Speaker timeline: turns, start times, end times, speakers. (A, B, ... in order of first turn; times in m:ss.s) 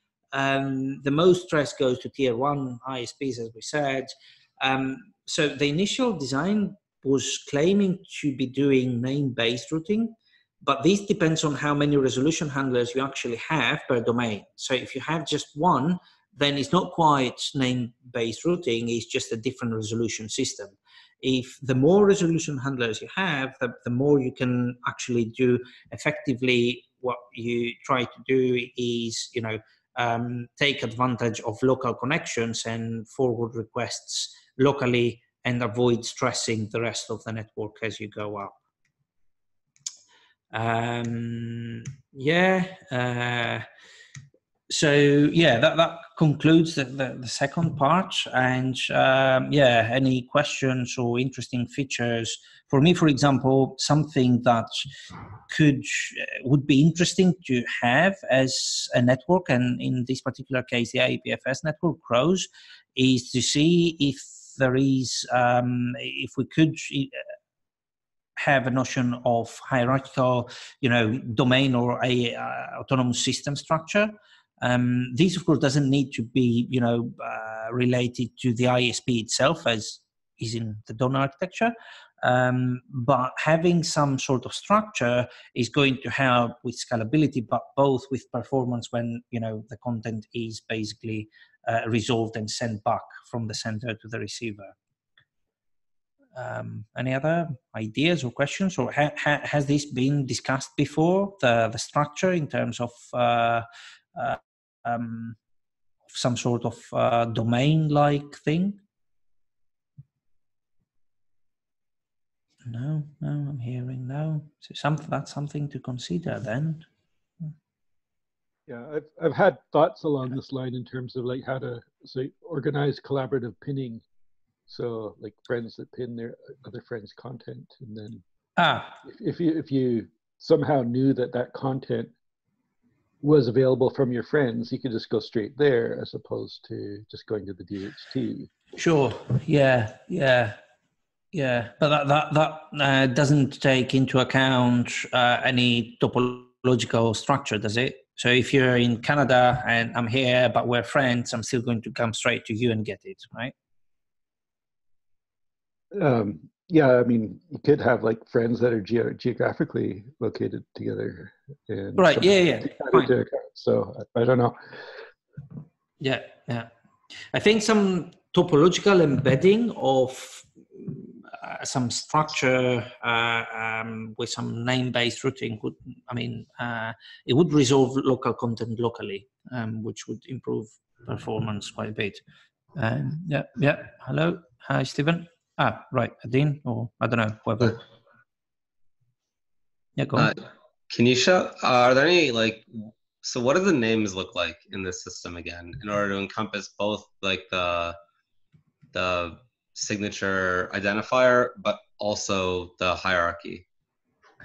0:00.3-0:38.6 A
0:40.5-0:43.6 A
0:44.7-0:54.7 A
0:55.5-1:07.2 A
1:08.4-1:34.7 A
1:36.4-1:43.6 A
1:44.2-1:45.4 A
1:46.1-1:48.8 A
1:52.6-1:56.8 A
1:58.7-2:04.0 B
2:04.7-2:08.2 B
2:08.6-2:08.9 A
2:09.0-2:12.1 B
2:13.2-2:18.5 B
2:18.8-2:20.6 A
2:21.3-2:33.5 A
2:36.0-2:44.7 B
2:42.0-2:43.1 A
2:46.0-2:46.7 A
2:47.3-3:02.2 A
3:02.8-3:07.8 A
3:10.0-3:10.3 A
3:10.9-3:18.0 C
3:18.9-3:23.6 C